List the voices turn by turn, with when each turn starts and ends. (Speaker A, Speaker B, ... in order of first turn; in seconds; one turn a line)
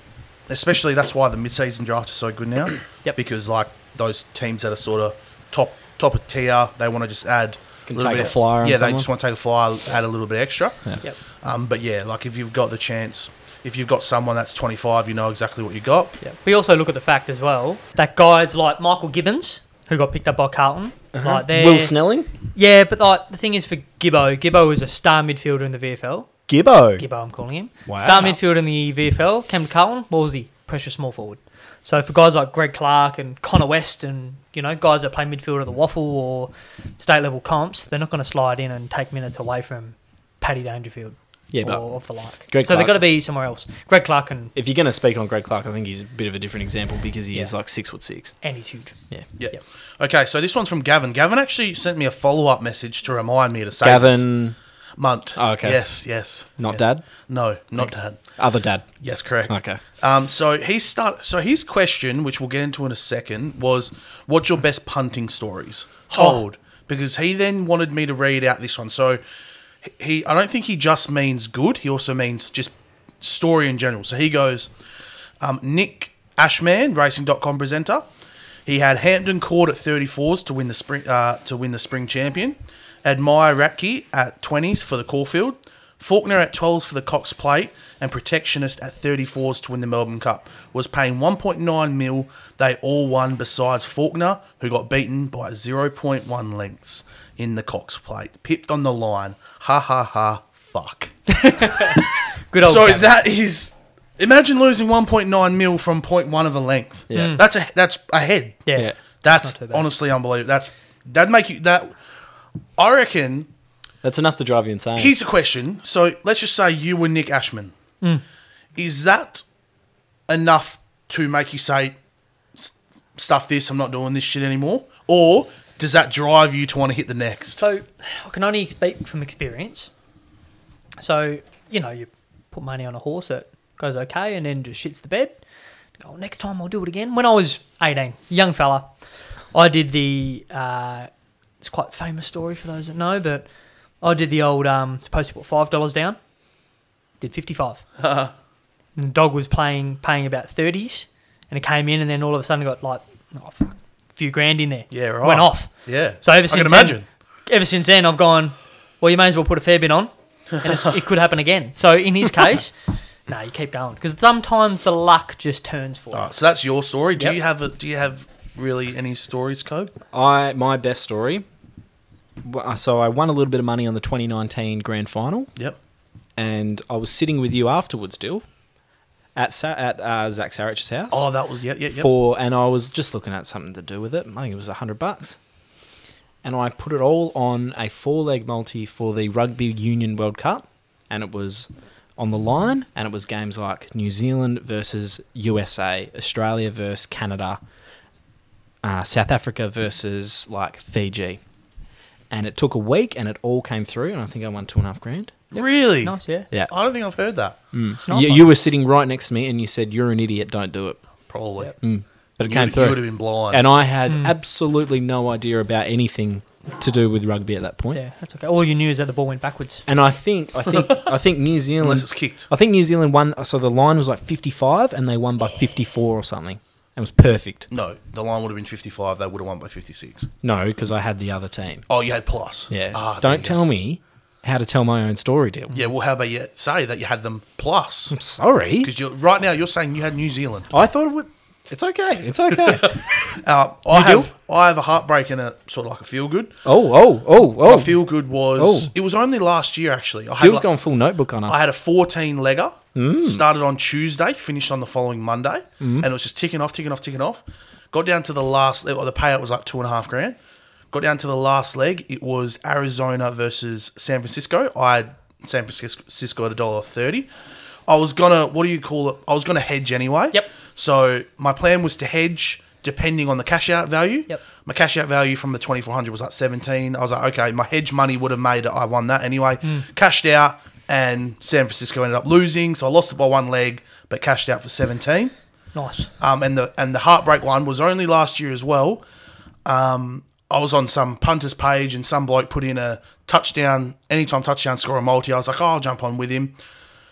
Speaker A: 0.5-16.1
Speaker B: 7.9-9.1
Speaker C: 16.2-21.9
Speaker B: 21.1-22.3
Speaker C: 22.5-26.3
Speaker B: 26.5-27.0
Speaker C: 27.0-44.5
Speaker B: 27.9-28.4
Speaker B: 41.5-43.1
Speaker B: 44.5-48.4
Speaker C: 48.4-49.0
Speaker A: 49.4-54.3
Speaker B: 53.8-54.5
Speaker A: 55.0-58.2
Speaker B: 55.4-55.9
Speaker B: 56.6-57.1
Speaker B: 57.8-58.9
Speaker A: 59.0-69.2
Speaker B: 59.5-59.8
Speaker A: 69.8-74.7
Speaker A: 75.4-78.1
Speaker A: 78.7-102.1
Speaker C: 101.3-103.1
Speaker A: 102.6-108.7
Speaker B: 107.1-107.4
Speaker C: 107.1-107.4
Speaker C: 108.7-109.8
Speaker A: 109.2-111.9
Speaker A: 112.8-113.5
Speaker B: 114.0-115.1
Speaker A: 115.0-117.7
Speaker A: 118.8-119.5
Speaker A: 120.3-122.0
Speaker A: 122.6-127.6
Speaker C: 127.6-129.9
Speaker C: 131.0-135.4
Speaker C: 136.0-138.9
Speaker C: 139.5-141.1
Speaker C: 141.6-143.5
Speaker C: 144.0-146.2
Speaker C: 147.2-147.8
Speaker A: 148.0-148.3
Speaker C: 149.0-155.7
Speaker A: 154.9-157.1
Speaker C: 156.2-162.8
Speaker C: 163.3-166.3
Speaker A: 166.1-169.9
Speaker B: 170.1-171.4
Speaker B: 172.4-175.5
Speaker B: 176.4-178.4
Speaker B: 179.3-181.3
Speaker A: 181.1-182.1
Speaker B: 181.9-185.4
Speaker B: 186.4-197.6
Speaker B: 198.8-201.4
Speaker B: 202.3-205.3
Speaker A: 205.5-207.6
Speaker C: 205.6-206.5
Speaker B: 207.7-211.0
Speaker C: 208.0-208.5
Speaker A: 211.3-211.8
Speaker B: 211.8-218.0
Speaker A: 212.5-213.6
Speaker C: 214.1-214.3
Speaker C: 217.9-219.9
Speaker B: 219.9-227.7
Speaker A: 221.8-222.5
Speaker A: 227.7-230.3
Speaker B: 230.4-231.9
Speaker A: 231.9-233.6
Speaker B: 232.7-235.7
Speaker A: 235.7-238.2
Speaker B: 238.1-238.9
Speaker A: 238.8-240.7
Speaker B: 240.7-243.0
Speaker A: 242.7-246.6
Speaker C: 243.9-244.3
Speaker B: 246.7-248.0
Speaker A: 247.6-250.7
Speaker B: 248.6-248.9
Speaker B: 250.4-251.7
Speaker A: 251.5-260.4
Speaker B: 253.0-253.4
Speaker B: 255.8-256.1
Speaker A: 260.9-267.3
Speaker A: 267.9-285.3
Speaker C: 285.8-286.1
Speaker A: 286.2-289.0
Speaker A: 289.6-296.6